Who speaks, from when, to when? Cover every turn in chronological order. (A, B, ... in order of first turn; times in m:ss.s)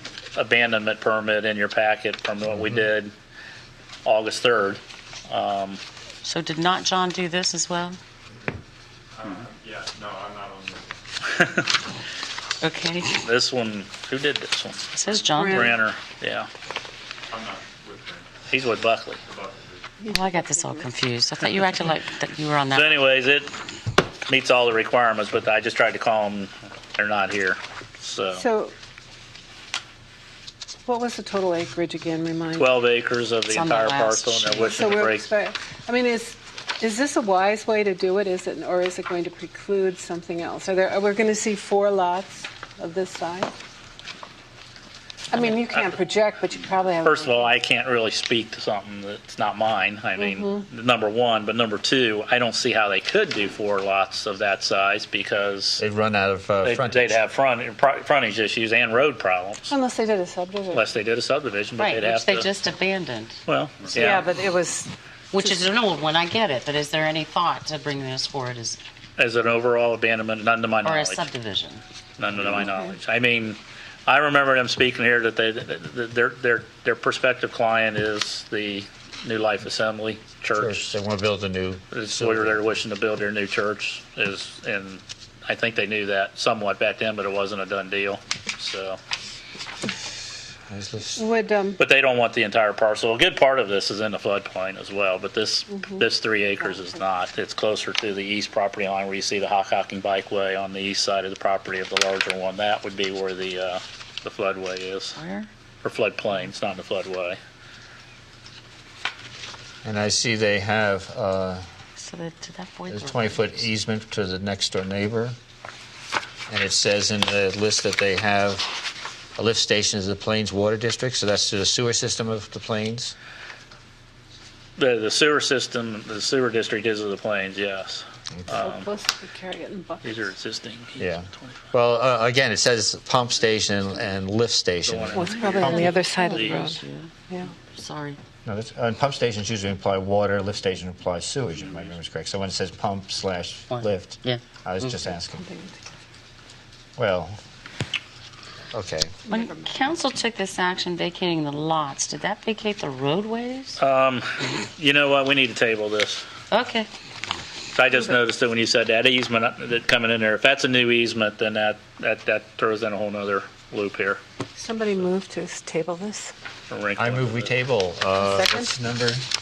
0:00.3-0:03.1 A
0:04.0-0:05.8 A
0:06.2-0:08.0 B
0:09.2-0:11.0 C
0:12.6-0:13.2 B
0:13.2-0:16.5 A
0:14.9-0:15.8 B
0:15.3-0:15.8 D
0:17.3-0:18.4 C
0:18.5-0:19.2 A
0:19.2-0:19.9 C
0:20.0-0:20.9 D
0:20.1-0:23.0 B
0:22.7-0:23.5 A
0:24.2-0:28.4 A
0:28.3-0:28.7 D
0:30.8-0:32.7 D
0:32.6-0:35.2 A
0:33.5-0:35.0 B
0:34.7-0:43.5 D
0:45.3-0:47.6 D
0:45.3-0:46.0 A
0:46.9-0:55.8 A
0:50.2-0:50.6 D
0:55.8-0:57.2 E
0:56.6-0:59.7 A
0:59.7-1:00.9 D
1:00.7-1:02.5 A
1:01.8-1:03.4 B
1:03.5-1:04.3 A
1:03.9-1:04.2 C
1:03.9-1:05.6 D
1:05.3-1:08.8 B
1:09.2-1:11.3 A
1:10.8-1:11.8 B
1:12.2-1:21.0 A
1:20.6-1:22.7 E
1:21.9-1:29.0 A
1:30.7-1:31.2 E
1:31.2-1:31.8 D
1:31.8-1:45.2 A
1:35.7-1:36.0 D
1:45.2-1:45.5 B
1:45.8-1:47.4 A
1:49.8-1:51.6 E
1:52.0-1:53.6 B
1:52.9-1:55.3 E
1:56.5-1:58.8 E
1:59.4-2:03.1 E
2:04.8-2:08.9 A
2:08.4-2:08.6 E
2:08.6-2:10.3 D
2:10.0-2:11.5 A
2:11.0-2:16.0 E
2:14.8-2:16.8 A
2:15.1-2:17.5 D
2:15.6-2:18.2 B
2:18.4-2:25.4 E
2:23.7-2:24.9 B
2:25.3-2:25.8 D
2:27.0-2:27.4 E
2:28.7-2:29.2 E
2:29.3-2:29.7 D
2:29.3-2:33.8 B
2:33.8-2:36.2 A
2:36.5-2:36.9 B
2:37.7-2:44.2 A
2:44.6-2:46.3 D
2:46.7-2:47.5 A
2:47.0-2:49.2 E
2:48.2-2:48.7 D